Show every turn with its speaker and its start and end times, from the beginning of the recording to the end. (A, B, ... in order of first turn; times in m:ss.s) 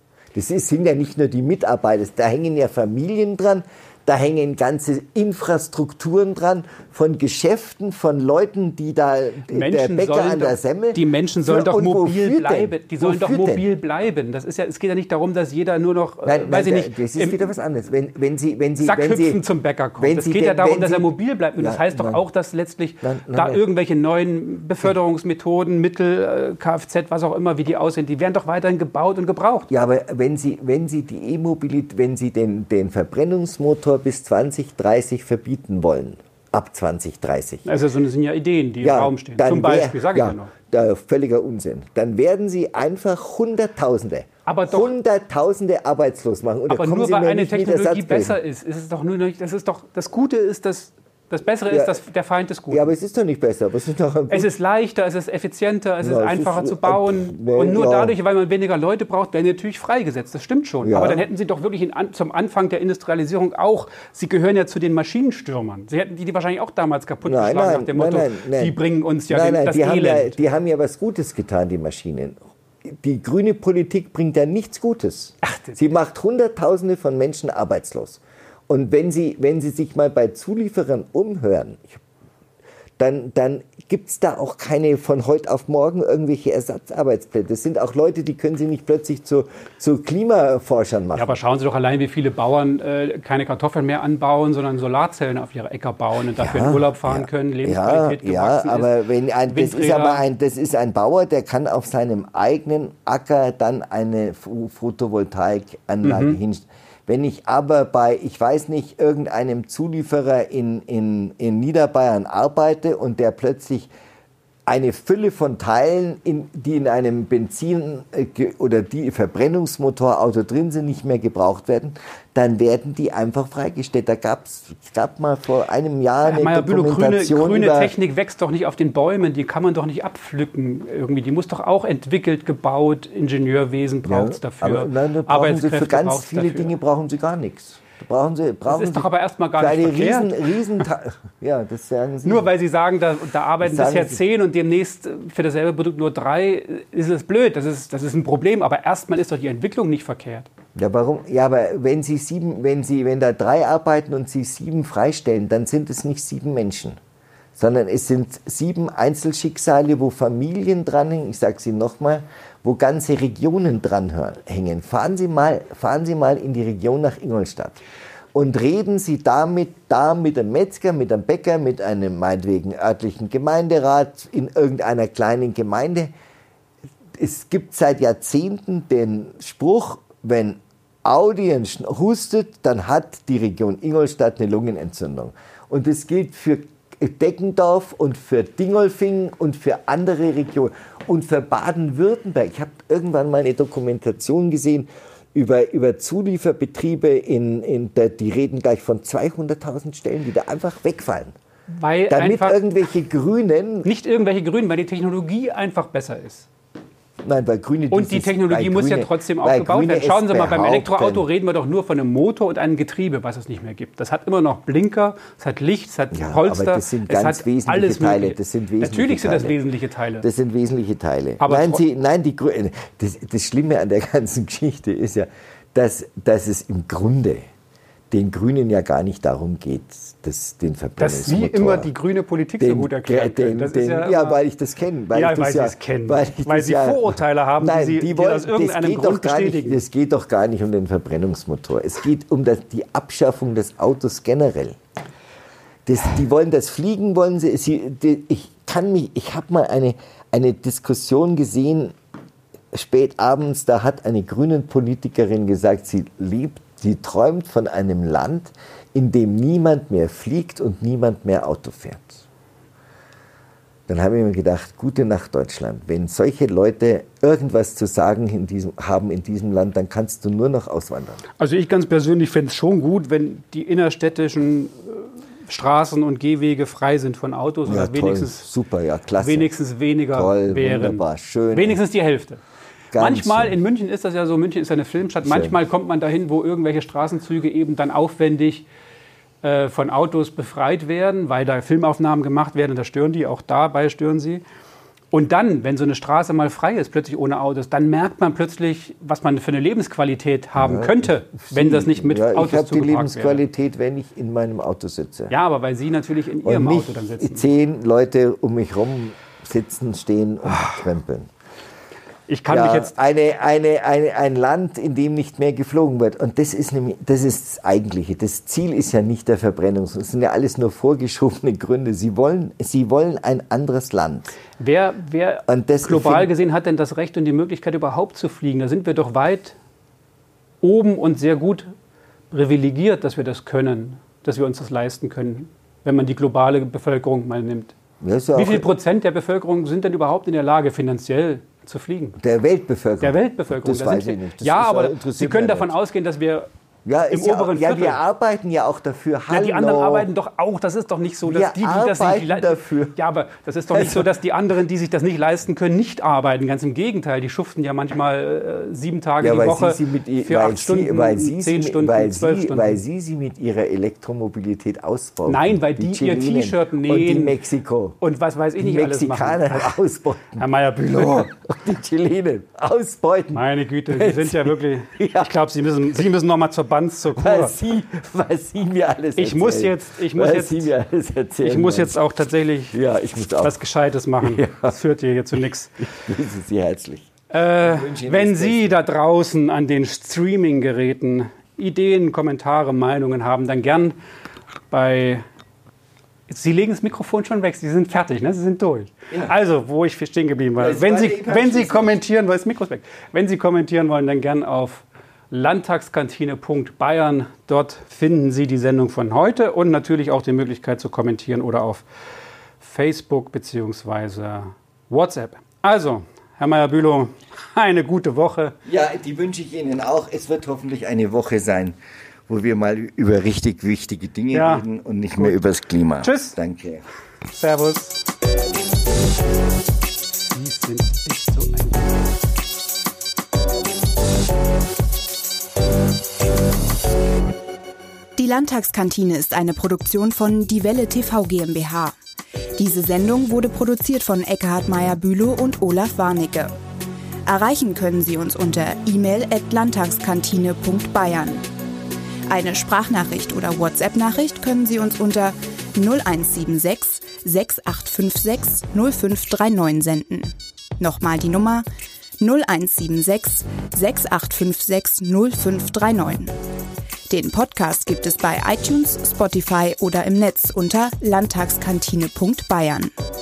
0:00.3-0:13.6 A
0:09.5-0:17.5 B
0:16.2-0:19.4 A
0:18.8-0:29.7 B
0:20.0-0:22.2 A
0:23.0-0:23.6 A
0:29.7-0:37.6 A
0:37.6-0:40.5 B
0:38.8-0:48.4 A
0:44.4-0:44.9 B
0:46.7-0:52.9 B
0:51.7-0:52.0 A
0:52.7-0:54.5 A
0:54.3-1:10.4 B
0:56.0-0:58.1 A
1:00.8-1:01.2 A
1:07.2-1:08.8 A
1:09.3-1:22.0 A
1:15.4-1:15.8 B
1:23.0-1:31.3 A
1:31.1-1:38.9 B
1:36.4-1:53.9 A
1:39.5-1:40.2 B
1:46.0-1:46.4 B
1:54.6-2:07.9 A
2:06.2-2:16.7 B
2:14.0-2:22.5 A
2:18.7-2:20.8 B
2:22.2-2:30.5 B
2:23.6-2:24.2 A
2:30.7-2:37.0 A
2:37.6-2:47.8 A
2:48.3-2:56.1 A
2:57.2-3:21.3 A
3:21.7-3:22.7 B
3:22.1-3:23.9 A
3:23.8-3:26.5 B
3:27.2-3:31.3 A
3:27.9-3:40.2 B
3:36.1-3:39.6 A
3:40.2-3:47.4 A
3:41.4-3:41.8 B
3:48.1-3:51.9 A
3:51.0-3:54.4 B
3:52.6-4:04.8 A
3:55.1-3:59.8 B
4:05.8-4:12.0 A
4:12.7-4:22.2 A
4:23.9-4:31.2 A
4:31.4-4:38.4 B
4:37.6-4:39.5 A
4:39.2-4:42.4 B
4:40.1-4:41.8 A
4:42.9-4:43.5 A
4:43.0-4:48.6 B
4:45.2-4:45.6 A
4:49.4-4:54.4 B
4:55.1-5:03.4 B
5:00.6-5:05.3 A
5:05.3-5:07.4 B
5:06.4-5:11.3 A
5:12.3-5:12.9 B
5:12.5-5:24.3 A
5:24.6-5:29.6 B
5:25.4-5:26.3 A
5:30.6-5:31.7 B
5:32.3-5:37.7 B
5:38.0-5:38.7 A
5:38.3-5:42.2 B
5:42.2-5:45.7 A
5:43.0-5:46.5 B
5:46.8-5:50.1 A
5:47.1-5:48.0 B
5:49.3-6:02.8 B
5:51.2-5:53.0 A
5:53.7-5:54.1 A
5:59.2-6:08.0 A
6:05.2-6:07.4 B
6:08.0-6:09.8 B
6:08.6-6:15.3 A
6:10.4-6:11.3 B
6:13.3-6:17.5 B
6:17.2-6:21.9 A
6:19.2-6:20.7 B
6:21.4-6:22.8 B
6:22.7-6:23.6 A
6:23.4-6:25.9 B
6:24.2-6:24.7 A
6:25.8-6:28.8 A
6:27.3-6:34.0 B
6:34.7-6:35.2 B
6:36.3-6:51.8 B
6:40.6-6:42.0 A
6:52.6-6:58.5 B
6:58.6-7:01.8 A
7:02.3-7:06.8 A
7:04.3-7:05.4 B
7:06.0-7:06.4 B
7:07.3-7:08.0 B
7:10.3-7:11.9 B
7:18.2-7:21.9 C
7:22.6-7:26.5 C
7:27.2-7:31.4 C
7:32.3-7:41.6 C
7:42.2-7:46.3 C
7:47.1-7:52.9 C